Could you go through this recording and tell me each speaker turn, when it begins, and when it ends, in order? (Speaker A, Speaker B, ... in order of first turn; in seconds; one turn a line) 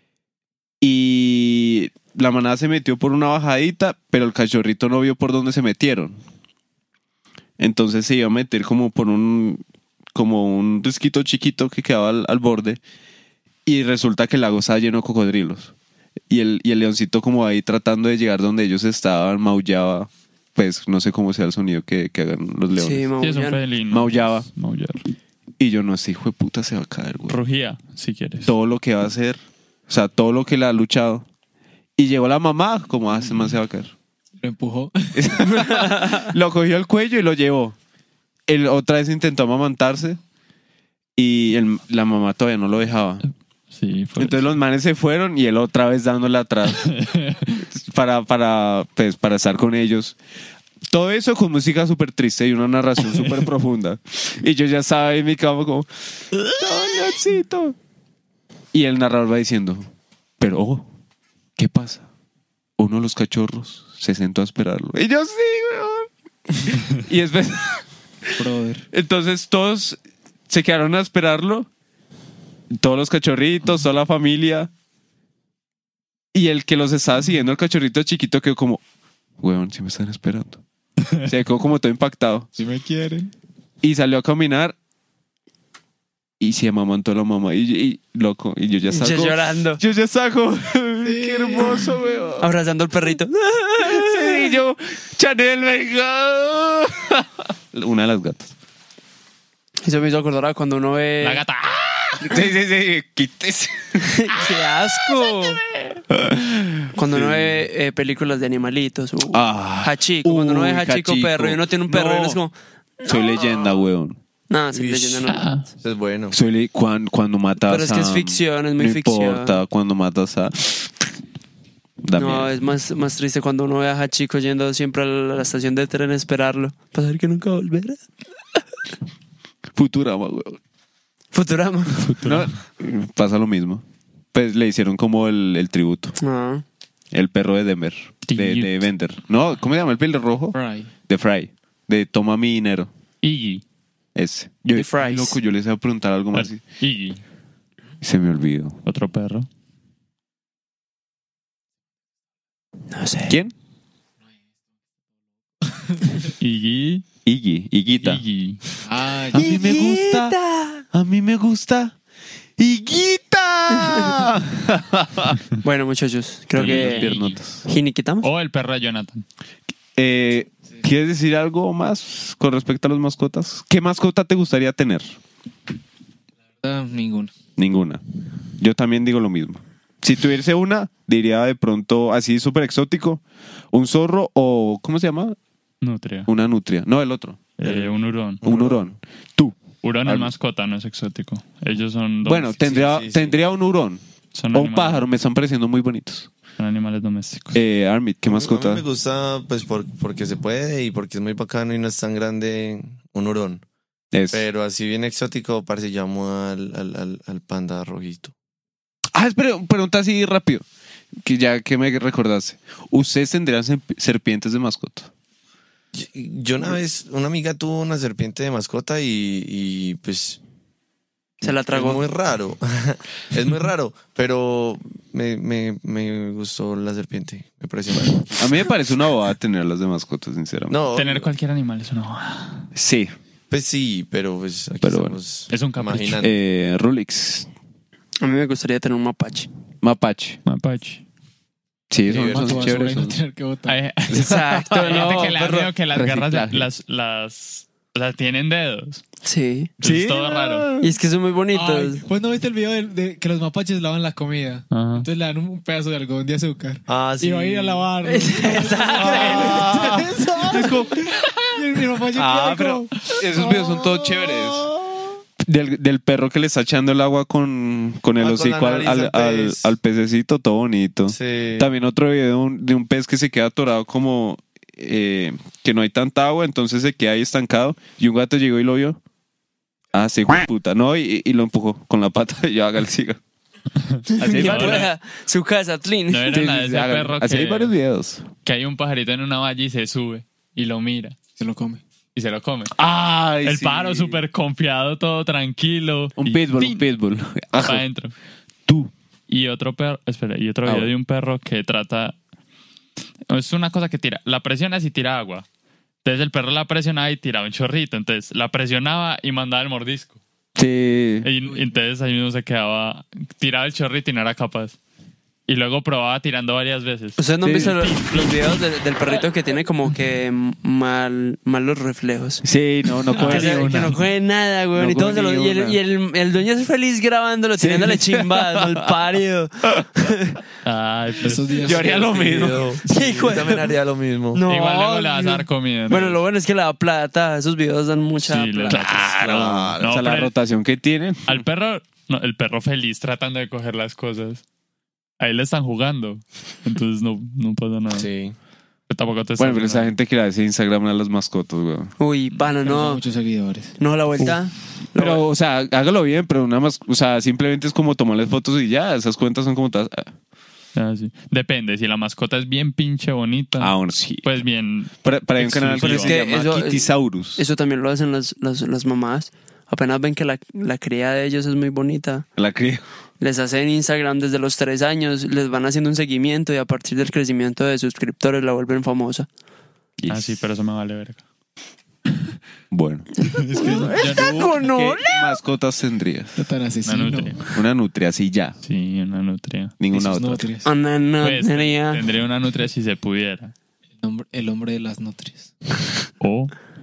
Speaker A: 0.8-6.2
Speaker A: 7.6-9.6
Speaker A: 10.1-12.8
Speaker A: 13.7-15.7
Speaker A: 16.3-23.1
Speaker B: 22.8-23.6
Speaker C: 23.2-25.0
Speaker A: 23.9-24.5
Speaker A: 25.6-27.4
Speaker C: 27.3-28.5
Speaker A: 28.4-31.2
Speaker A: 32.0-33.9
Speaker D: 34.4-35.6
Speaker A: 35.1-37.8
Speaker A: 38.5-40.2
Speaker A: 41.1-43.2
Speaker C: 43.7-44.5
Speaker A: 44.2-46.9
Speaker C: 46.7-47.6
Speaker A: 47.7-50.1
Speaker A: 50.9-57.8
Speaker A: 58.7-60.9
Speaker A: 61.6-62.0
Speaker A: 62.8-67.9
Speaker D: 68.4-68.8
Speaker A: 68.9-71.7
Speaker A: 72.7-74.7
Speaker A: 76.3-78.8
Speaker A: 79.4-80.6
Speaker A: 81.2-82.5
Speaker D: 82.5-83.3
Speaker A: 83.8-84.8
Speaker A: 86.4-92.5
Speaker B: 88.9-89.8
Speaker D: 91.0-91.9
Speaker B: 92.4-94.4
Speaker A: 93.8-98.5
Speaker B: 99.8-101.4
Speaker C: 101.2-102.3
Speaker A: 102.2-104.4
Speaker B: 104.0-105.6
Speaker A: 106.1-107.5
Speaker B: 106.9-112.5
Speaker A: 109.3-112.4
Speaker A: 113.0-114.2
Speaker B: 114.5-115.5
Speaker E: 114.7-115.3
Speaker C: 115.3-115.7
Speaker E: 115.8-116.3
Speaker A: 116.3-121.0
Speaker B: 117.6-119.6
Speaker A: 122.0-122.5
Speaker B: 122.1-128.0
Speaker A: 129.7-130.6
Speaker B: 131.3-132.1
Speaker C: 132.0-132.5
Speaker A: 132.2-133.8
Speaker A: 134.3-136.1
Speaker B: 136.2-136.6
Speaker A: 137.1-142.9
Speaker C: 138.2-138.8
Speaker D: 140.5-140.9
Speaker C: 143.2-143.6
Speaker A: 144.1-146.6
Speaker B: 144.7-145.4
Speaker C: 146.3-147.2
Speaker A: 148.0-148.8
Speaker C: 148.8-149.5
Speaker B: 152.9-153.3
Speaker A: 153.3-153.5
Speaker D: 155.8-156.1
Speaker C: 156.4-157.0
Speaker A: 157.2-158.2
Speaker C: 158.0-158.6
Speaker D: 158.8-159.7
Speaker A: 159.3-160.4
Speaker B: 159.4-160.8
Speaker A: 160.9-161.9
Speaker A: 162.6-165.4
Speaker B: 165.6-167.1
Speaker A: 166.5-167.6
Speaker C: 166.6-167.4
Speaker B: 167.7-168.3
Speaker C: 168.2-169.2
Speaker A: 169.9-175.2
Speaker D: 176.6-177.3
Speaker A: 177.6-178.0
Speaker A: 178.6-185.4
Speaker C: 185.8-186.3
Speaker A: 186.3-187.5
Speaker C: 187.6-188.4
Speaker E: 187.6-187.9
Speaker E: 188.4-188.9
Speaker A: 188.4-190.3
Speaker C: 189.8-192.8
Speaker A: 192.2-194.0
Speaker E: 192.6-193.3
Speaker C: 194.3-195.0
Speaker A: 194.5-196.3
Speaker C: 196.6-197.6
Speaker A: 197.5-198.8
Speaker E: 198.3-203.6
Speaker A: 204.1-204.4
Speaker E: 204.3-208.3
Speaker A: 209.1-210.6
Speaker A: 211.2-215.1
Speaker E: 215.9-220.4
Speaker B: 221.4-222.1
Speaker E: 221.4-228.5
Speaker A: 228.3-230.8
Speaker E: 230.7-231.3
Speaker C: 230.9-232.7
Speaker A: 232.7-233.1
Speaker E: 233.5-236.3
Speaker A: 234.8-235.2
Speaker C: 235.5-236.2
Speaker A: 236.2-237.5
Speaker B: 238.2-239.5
Speaker A: 239.8-240.4
Speaker C: 240.4-241.0
Speaker A: 241.9-243.2
Speaker E: 242.1-242.8
Speaker D: 242.2-243.8
Speaker C: 243.7-249.0
Speaker B: 244.1-245.7
Speaker A: 244.1-245.2
Speaker A: 245.9-246.7
Speaker B: 249.2-249.7
Speaker C: 249.8-250.7
Speaker A: 249.8-250.9
Speaker B: 250.8-252.0
Speaker D: 251.5-265.1
Speaker C: 254.7-255.1
Speaker E: 256.9-257.9
Speaker B: 258.0-259.6
Speaker A: 258.9-260.9
Speaker A: 262.1-264.7
Speaker A: 265.4-279.0
Speaker E: 268.2-269.7
Speaker E: 271.1-271.7
Speaker A: 279.9-283.2
Speaker C: 283.9-284.9
Speaker B: 284.1-286.4
Speaker A: 284.2-284.9
Speaker C: 286.1-287.7
Speaker A: 286.3-288.3
Speaker C: 288.4-291.2
Speaker D: 291.4-291.8
Speaker C: 292.1-292.7
Speaker A: 292.7-294.2
Speaker C: 293.4-296.8
Speaker A: 296.2-297.8
Speaker C: 297.6-298.1
Speaker A: 298.7-298.9
Speaker C: 299.3-302.1
Speaker A: 300.6-300.9
Speaker C: 303.3-305.4
Speaker C: 306.0-310.2
Speaker A: 310.6-311.3
Speaker C: 311.2-314.8
Speaker C: 315.5-318.6
Speaker B: 317.2-322.4
Speaker A: 317.4-317.8
Speaker A: 322.4-324.0
Speaker C: 323.1-323.7
Speaker B: 323.1-330.4
Speaker A: 324.7-325.8
Speaker A: 327.6-328.9
Speaker A: 329.6-330.1
Speaker C: 330.6-331.8
Speaker D: 331.2-332.1
Speaker A: 331.6-332.8
Speaker E: 332.0-334.4
Speaker B: 332.8-333.7
Speaker B: 334.3-338.8
Speaker C: 334.5-336.2
Speaker C: 338.2-340.3
Speaker A: 338.7-341.4
Speaker E: 339.1-339.9
Speaker C: 341.3-344.4
Speaker C: 345.2-348.1
Speaker E: 347.9-348.3
Speaker C: 348.9-349.9
Speaker A: 349.4-351.9
Speaker B: 352.0-353.0
Speaker D: 352.6-353.8
Speaker B: 353.8-355.2
Speaker A: 354.9-360.1
Speaker C: 360.7-366.2
Speaker A: 363.6-364.2
Speaker A: 365.0-367.4
Speaker B: 365.8-372.3
Speaker A: 372.4-372.8
Speaker B: 373.2-379.3
Speaker A: 380.0-380.3
Speaker C: 380.1-381.2
Speaker A: 382.7-383.1
Speaker B: 383.2-385.3
Speaker D: 383.5-384.3
Speaker C: 383.6-384.5
Speaker A: 384.4-386.4
Speaker D: 386.4-387.5
Speaker C: 386.8-387.4
Speaker A: 387.5-388.6
Speaker C: 388.6-389.8
Speaker A: 389.8-390.4
Speaker D: 389.9-390.7
Speaker B: 390.6-392.0
Speaker C: 391.2-393.5
Speaker D: 394.0-395.5
Speaker C: 396.2-396.5